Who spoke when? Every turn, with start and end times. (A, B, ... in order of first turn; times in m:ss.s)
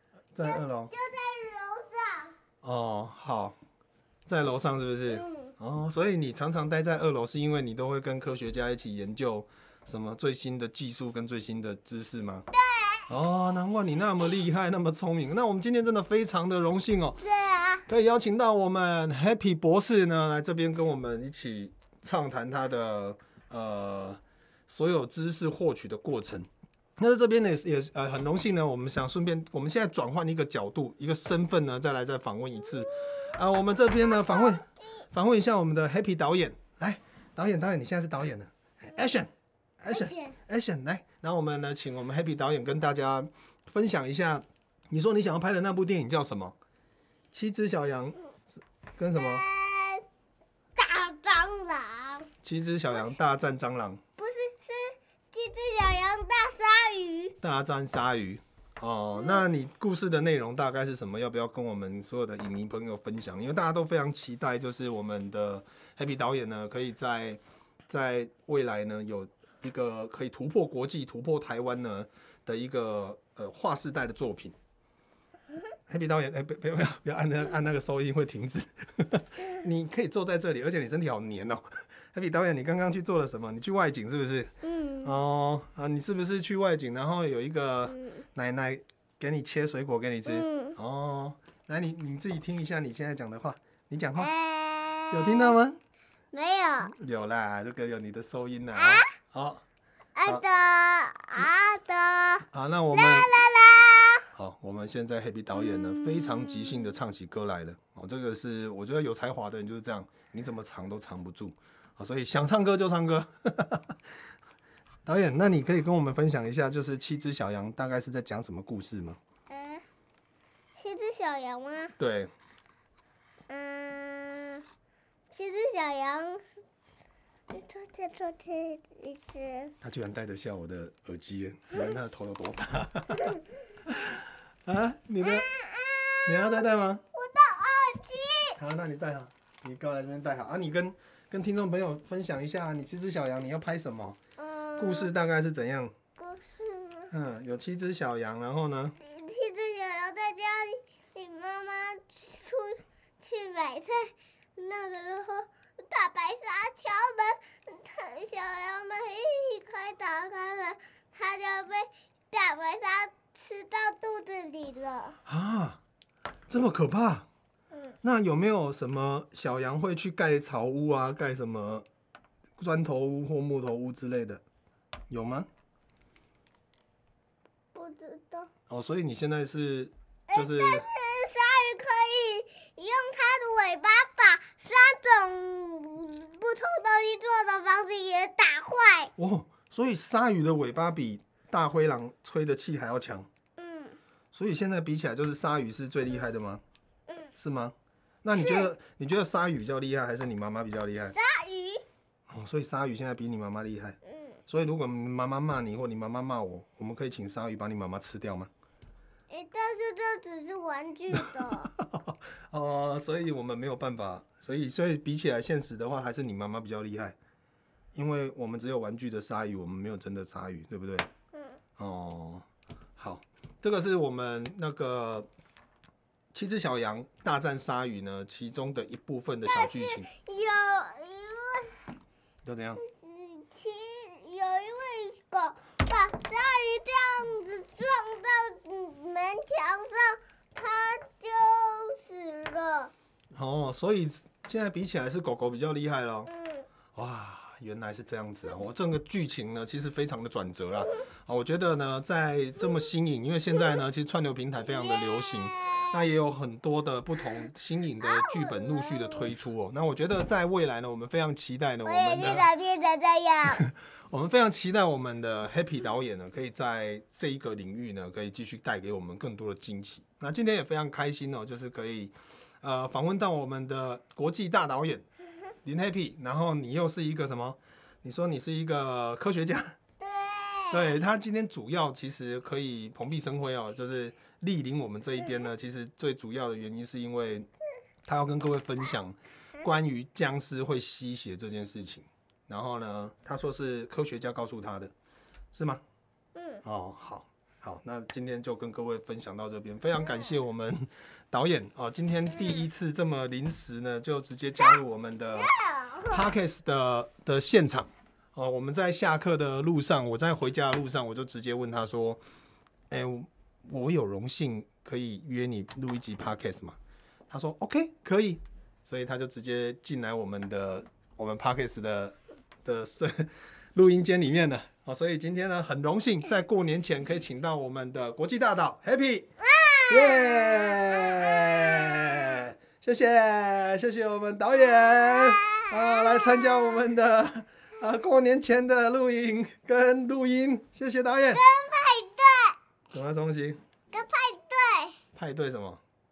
0:00.3-0:00.9 A
0:00.4-0:02.4 B
0:02.6-0:03.5 A
0:04.3-0:12.5 A
0:05.1-0:05.5 B
0:12.5-0:13.1 B
0:13.1-0:17.2 A
0:17.2-0:17.8 B
0:17.9-0:39.3 A
0:34.0-0:34.6 B
0:39.8-0:46.6 A
0:39.9-0:40.4 B
0:47.3-0:49.4 A
0:49.1-0:50.0 B
0:50.8-0:52.3 B
0:52.4-0:54.0 A
0:54.2-0:57.4 B
0:57.4-1:14.5 A
0:59.2-0:59.4 B
1:15.9-1:24.5 A
1:24.6-1:25.1 B
1:25.0-1:34.3 A
1:27.9-1:28.2 B
1:30.3-1:30.8 B
1:34.2-1:35.6 B
1:35.1-1:35.8 A
1:36.3-1:36.9 B
1:36.8-1:39.6 A
1:38.7-1:39.1 B
1:40.2-1:44.3 B
1:42.5-1:43.4 A
1:44.3-1:54.0 A
1:45.6-1:46.0 B
1:55.0-1:59.2 A
1:59.5-1:59.8 B
2:00.8-2:01.9 B
2:02.0-2:02.3 A
2:03.5-2:04.6 B
2:05.3-2:06.4 B
2:07.5-2:09.7 B
2:09.8-2:15.5 A
2:15.2-2:18.6 B
2:16.2-2:17.0 A
2:18.6-2:24.2 A
2:24.4-2:25.1 B
2:24.8-2:26.0 A
2:26.1-2:27.1 B
2:27.1-2:28.9 A
2:29.0-2:45.2 B
2:45.2-2:45.8 A
2:46.5-2:47.3 A
2:48.0-2:51.8 A
2:52.6-2:54.4 A
2:55.1-2:55.5 A
2:57.7-2:58.5 B
2:58.7-3:00.9 A
3:00.3-3:09.1 B
3:09.2-3:13.3 A
3:13.6-3:14.0 B
3:14.3-3:16.6 A
3:17.4-3:21.2 A
3:18.3-3:18.7 B
3:21.1-3:21.8 B
3:22.3-3:28.5 A
3:29.3-3:31.7 B
3:31.2-3:37.2 A
3:37.9-3:41.1 A
3:41.8-3:42.4 A
3:43.0-3:45.3 A
3:46.3-3:50.1 A
3:49.4-3:51.9 B
3:52.4-3:52.8 A
3:52.8-4:02.9 B
4:03.3-4:06.3 A
4:06.3-4:06.7 B
4:06.9-4:22.5 A
4:14.6-4:16.0 B
4:18.0-4:19.3 B
4:21.8-4:23.6 B
4:23.5-4:35.0 A
4:35.6-4:39.8 A
4:40.0-4:41.0 B
4:40.7-4:47.5 A
4:48.0-4:54.9 A
4:55.5-4:55.8 A
4:56.4-4:56.6 B
4:56.6-5:05.5 A
5:05.3-5:06.3 B
5:06.1-5:12.2 A
5:12.9-5:16.8 A
5:17.3-5:29.3 A
5:29.4-5:32.4 B
5:29.9-5:41.4 A
5:34.6-5:36.8 B
5:41.3-5:42.6 B
5:42.9-5:43.6 A
5:43.9-5:45.0 B
5:45.1-5:45.8 A